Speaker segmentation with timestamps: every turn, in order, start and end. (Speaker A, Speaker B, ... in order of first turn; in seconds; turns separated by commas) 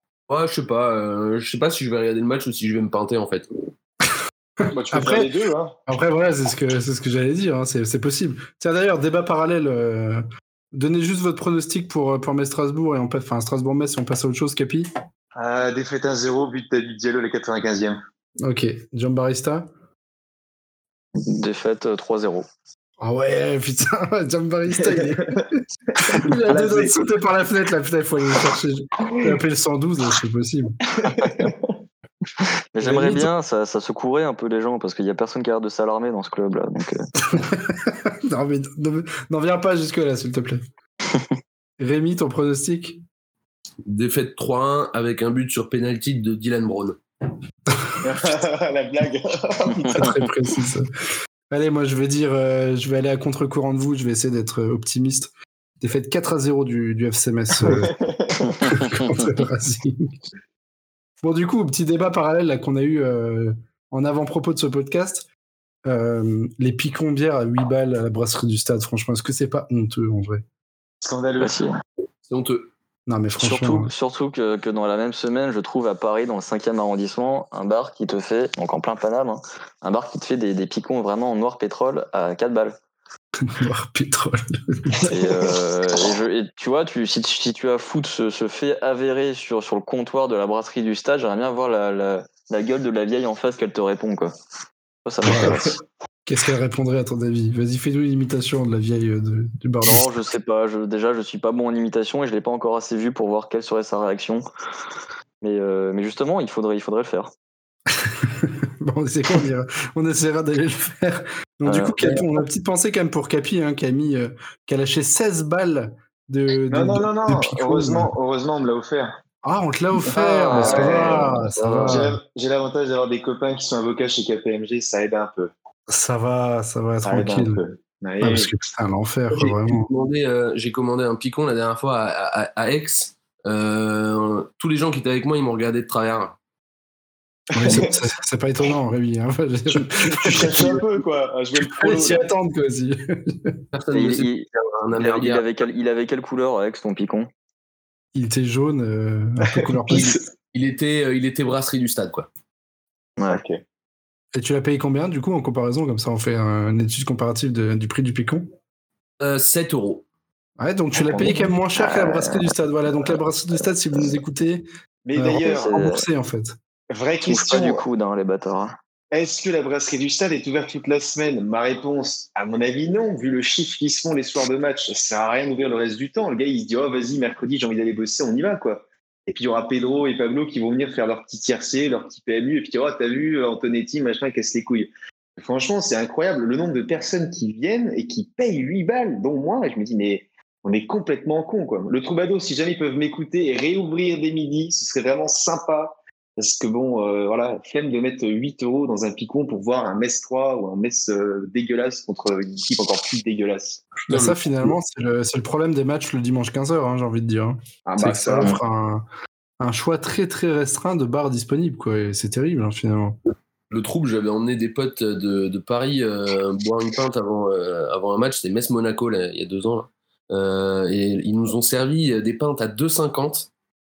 Speaker A: 0.3-3.5, Speaker B: 4.7-5.8, Speaker C: 4.9-5.3, Speaker C: 5.9-14.9, Speaker B: 15.4-18.0, Speaker C: 18.4-19.7, Speaker D: 21.2-22.5, Speaker C: 23.0-25.3, Speaker B: 24.8-26.9, Speaker C: 26.1-30.8, Speaker B: 30.9-31.7, Speaker D: 32.7-37.0, Speaker C: 32.8-33.3, Speaker C: 37.3-40.6, Speaker C: 41.8-43.0, Speaker A: 43.9-47.0, Speaker B: 48.0-50.2, Speaker C: 49.9-50.9, Speaker C: 51.5-57.9, Speaker B: 57.6-58.5, Speaker C: 58.6-60.2, Speaker C: 61.2-65.3, Speaker C: 65.9-70.5, Speaker B: 71.0-71.7, Speaker D: 71.4-71.8, Speaker A: 72.3-72.7, Speaker C: 73.1-73.9, Speaker D: 73.4-82.8, Speaker C: 83.4-85.0, Speaker D: 85.1-94.3, Speaker D: 95.0-95.7, Speaker C: 95.2-95.6, Speaker C: 96.3-100.2, Speaker D: 99.8-104.4, Speaker D: 105.4-107.3, Speaker C: 108.0-118.1, Speaker D: 111.7-112.2, Speaker B: 116.7-119.2, Speaker C: 119.4-122.1, Speaker D: 120.1-122.1, Speaker B: 120.5-121.3, Speaker B: 121.9-125.5, Speaker C: 125.9-127.6, Speaker B: 127.0-128.5, Speaker C: 128.2-129.9, Speaker A: 129.3-136.4, Speaker C: 137.5-140.8, Speaker B: 137.6-137.9, Speaker B: 140.0-142.2, Speaker C: 141.6-143.6, Speaker A: 143.7-145.4, Speaker D: 143.9-147.3, Speaker C: 148.1-150.2, Speaker B: 149.8-150.2, Speaker A: 149.9-152.3, Speaker B: 153.3-153.6, Speaker C: 154.3-158.5, Speaker A: 159.2-160.1, Speaker C: 160.6-166.6, Speaker B: 161.0-161.4, Speaker D: 161.8-162.4, Speaker B: 165.1-165.7, Speaker D: 165.4-166.0, Speaker B: 166.9-167.8, Speaker D: 167.2-168.8, Speaker B: 169.1-203.9, Speaker A: 204.1-204.7, Speaker C: 204.1-209.1, Speaker B: 207.9-208.6, Speaker C: 209.6-213.2, Speaker A: 213.7-223.5